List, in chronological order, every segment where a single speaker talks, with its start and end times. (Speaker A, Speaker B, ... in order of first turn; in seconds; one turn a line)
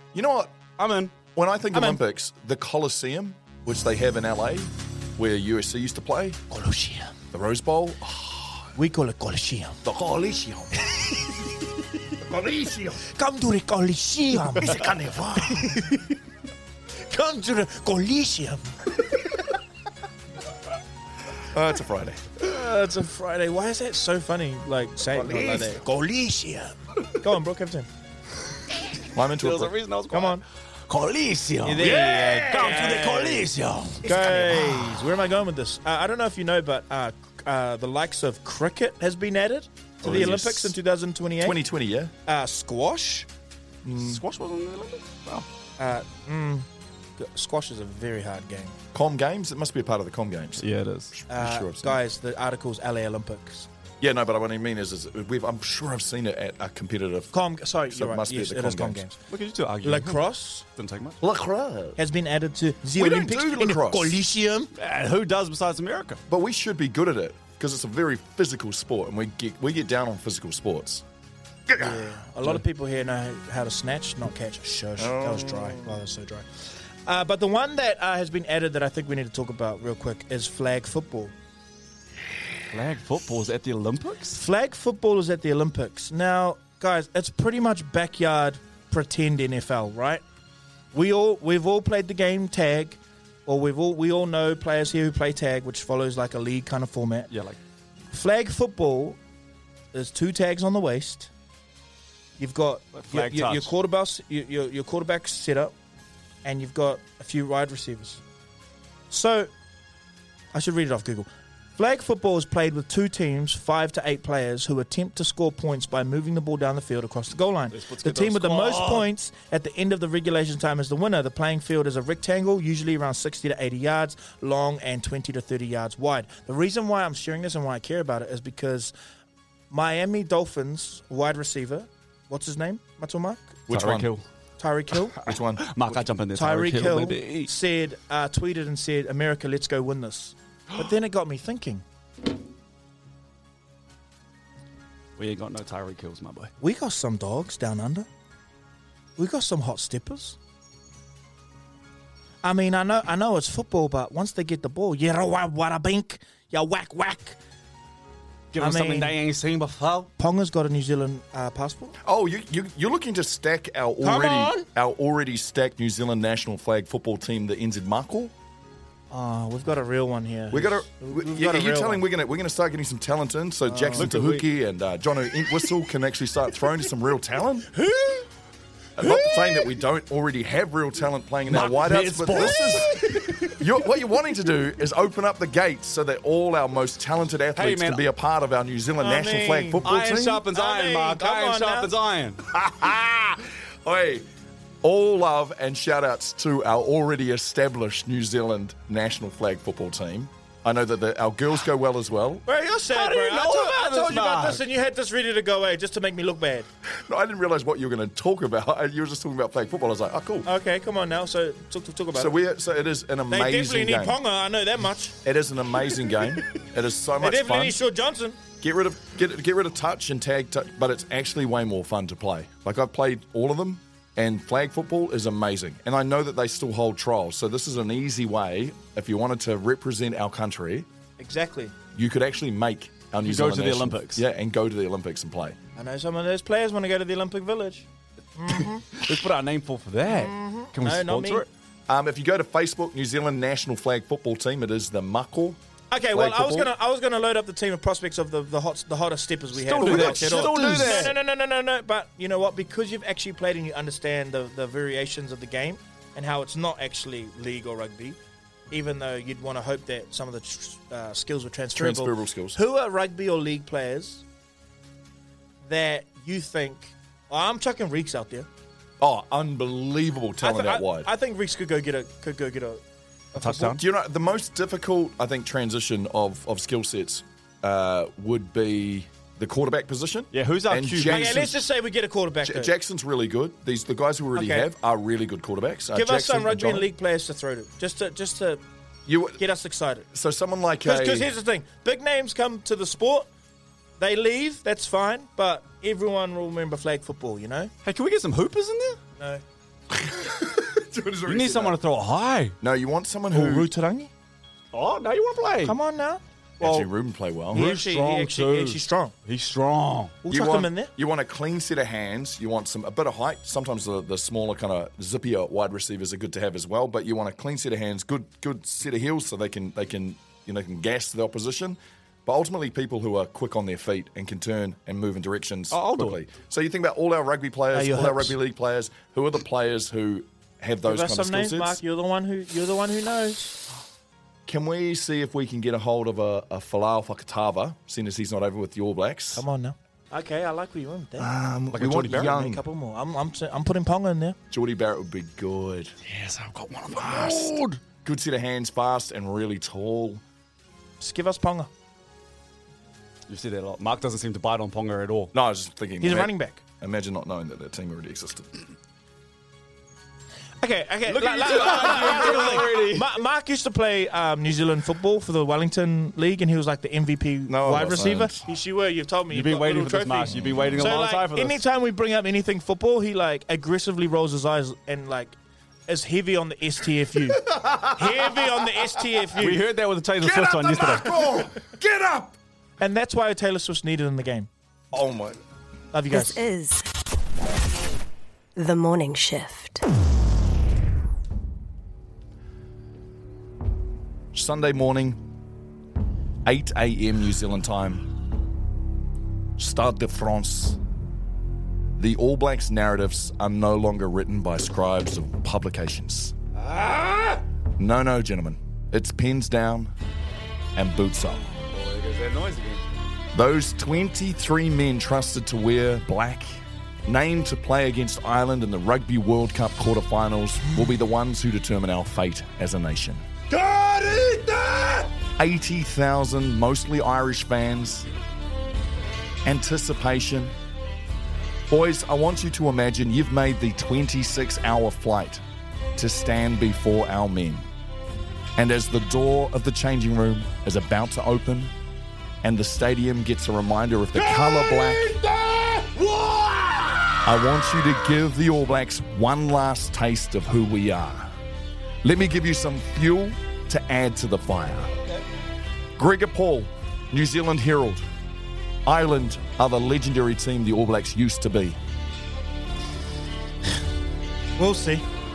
Speaker A: 0.1-0.6
Speaker B: 0.8-1.1
Speaker A: 1.3-6.4
Speaker C: 1.7-2.0
Speaker C: 6.5-7.2
Speaker A: 7.3-8.7
Speaker C: 8.7-9.8
Speaker A: 9.8-10.9
Speaker A: 12.2-13.0
Speaker C: 13.0-16.1
Speaker A: 14.6-15.7
Speaker C: 17.0-18.8
Speaker A: 21.4-22.2
Speaker C: 22.4-27.9
Speaker A: 25.1-25.8
Speaker A: 29.1-29.7
Speaker B: 29.4-35.0
Speaker C: 30.1-30.4
Speaker C: 31.6-33.5
Speaker C: 34.0-41.6
Speaker A: 40.0-40.8
Speaker A: 41.4-42.1
Speaker C: 42.2-43.3
Speaker A: 43.8-44.2
Speaker B: 44.0-45.5
Speaker C: 45.8-48.8
Speaker A: 48.9-52.0
Speaker B: 50.6-51.1
Speaker C: 51.3-53.7
Speaker A: 54.0-57.3
Speaker C: 57.3-59.2
Speaker A: 57.9-59.0
Speaker B: 59.3-61.2
Speaker C: 59.8-60.6
Speaker A: 61.2-62.0
Speaker C: 62.0-64.7
Speaker A: 62.9-64.2
Speaker B: 64.8-66.2
Speaker A: 66.3-71.0
Speaker A: 71.7-72.0
Speaker C: 71.8-76.5
Speaker A: 75.0-76.0
Speaker C: 77.0-81.3
Speaker B: 82.7-84.4
Speaker C: 84.3-90.2
Speaker C: 90.9-97.3
Speaker B: 97.3-97.6
Speaker C: 98.1-99.2
Speaker C: 99.9-101.3
Speaker C: 102.4-105.7
Speaker B: 102.9-103.7
Speaker C: 106.4-108.2
Speaker C: 109.1-109.5
Speaker C: 110.5-128.9
Speaker B: 117.7-119.1
Speaker C: 129.7-133.6
Speaker A: 133.7-134.1
Speaker B: 133.7-134.2
Speaker C: 134.6-135.2
Speaker B: 135.1-137.5
Speaker A: 135.2-135.9
Speaker C: 136.3-141.8
Speaker B: 145.2-146.5
Speaker C: 146.6-148.1
Speaker C: 149.2-150.4
Speaker C: 152.4-157.4
Speaker B: 158.5-160.1
Speaker C: 158.6-159.2
Speaker C: 160.2-161.9
Speaker A: 162.0-168.3
Speaker C: 164.0-164.7
Speaker C: 169.1-172.0
Speaker A: 170.5-177.7
Speaker C: 173.7-174.2
Speaker B: 173.9-174.5
Speaker C: 177.8-178.2
Speaker A: 178.9-182.9
Speaker C: 179.0-179.7
Speaker B: 181.5-183.6
Speaker C: 182.6-183.5
Speaker A: 183.5-190.4
Speaker B: 187.6-188.0
Speaker C: 189.0-191.9
Speaker B: 189.8-192.4
Speaker A: 192.5-194.3
Speaker A: 194.8-202.4
Speaker C: 202.4-206.7
Speaker B: 202.8-204.6
Speaker A: 206.9-210.5
Speaker C: 210.4-212.4
Speaker A: 212.1-214.2
Speaker C: 213.3-215.2
Speaker A: 215.2-217.8
Speaker C: 217.2-218.4
Speaker A: 218.6-230.9
Speaker C: 231.2-231.7
Speaker A: 231.9-235.6
Speaker B: 233.2-234.2
Speaker C: 235.8-238.9
Speaker B: 238.9-241.5
Speaker C: 240.1-241.4
Speaker A: 241.9-245.6
Speaker C: 245.9-258.2
Speaker A: 246.1-246.7
Speaker B: 249.6-251.1
Speaker A: 249.7-251.1
Speaker C: 258.7-264.2
Speaker A: 261.7-262.6
Speaker C: 265.6-268.5
Speaker A: 269.0-271.1
Speaker C: 270.4-272.8
Speaker C: 273.3-273.8
Speaker B: 273.4-273.8
Speaker A: 273.8-281.6
Speaker B: 280.3-281.5
Speaker C: 281.0-282.7
Speaker A: 282.4-286.9
Speaker C: 284.4-284.7
Speaker C: 285.9-288.6
Speaker A: 289.1-289.4
Speaker C: 289.4-290.1
Speaker A: 290.1-291.3
Speaker C: 290.8-293.3
Speaker C: 294.0-297.7
Speaker B: 297.8-299.0
Speaker A: 299.9-301.8
Speaker B: 301.2-302.6
Speaker A: 302.6-303.7
Speaker C: 303.3-304.1
Speaker B: 304.7-305.8
Speaker C: 305.6-306.9
Speaker A: 306.6-307.7
Speaker C: 307.5-309.1
Speaker B: 307.5-310.1
Speaker C: 310.2-310.9
Speaker A: 310.3-331.8
Speaker B: 325.7-326.2
Speaker C: 327.7-328.3
Speaker C: 330.9-333.5
Speaker A: 334.5-339.4
Speaker C: 339.3-341.3
Speaker A: 341.2-342.6
Speaker B: 341.7-342.4
Speaker C: 342.1-344.4
Speaker A: 344.5-345.9
Speaker B: 346.0-347.8
Speaker A: 346.9-350.2
Speaker C: 351.0-351.7
Speaker B: 353.3-355.3
Speaker A: 355.3-358.6
Speaker C: 356.0-356.6
Speaker C: 360.6-375.4
Speaker B: 361.1-363.1
Speaker A: 367.5-368.5
Speaker B: 369.3-371.6
Speaker A: 370.3-370.9
Speaker C: 375.9-379.6
Speaker A: 377.5-378.2
Speaker B: 379.4-381.5
Speaker A: 380.2-382.4
Speaker C: 382.8-384.5
Speaker A: 384.9-385.4
Speaker C: 385.9-386.4
Speaker D: 386.1-386.9
Speaker D: 388.6-389.8
Speaker A: 394.3-395.2
Speaker A: 396.4-398.1
Speaker A: 399.6-400.8
Speaker A: 402.0-406.3
Speaker B: 406.6-407.4
Speaker A: 407.8-409.9
Speaker A: 410.8-411.4
Speaker B: 411.4-412.8
Speaker A: 413.3-423.2
Speaker B: 423.5-425.1
Speaker A: 425.4-428.1
Speaker A: 429.4-430.5
Speaker A: 431.7-435.4
Speaker A: 435.9-437.7
Speaker A: 438.6-441.7
Speaker A: 442.4-445.1
Speaker B: 444.1-447.2
Speaker A: 447.2-451.3
Speaker A: 452.0-454.9
Speaker A: 456.0-458.0
Speaker A: 458.8-461.8
Speaker C: 464.6-465.0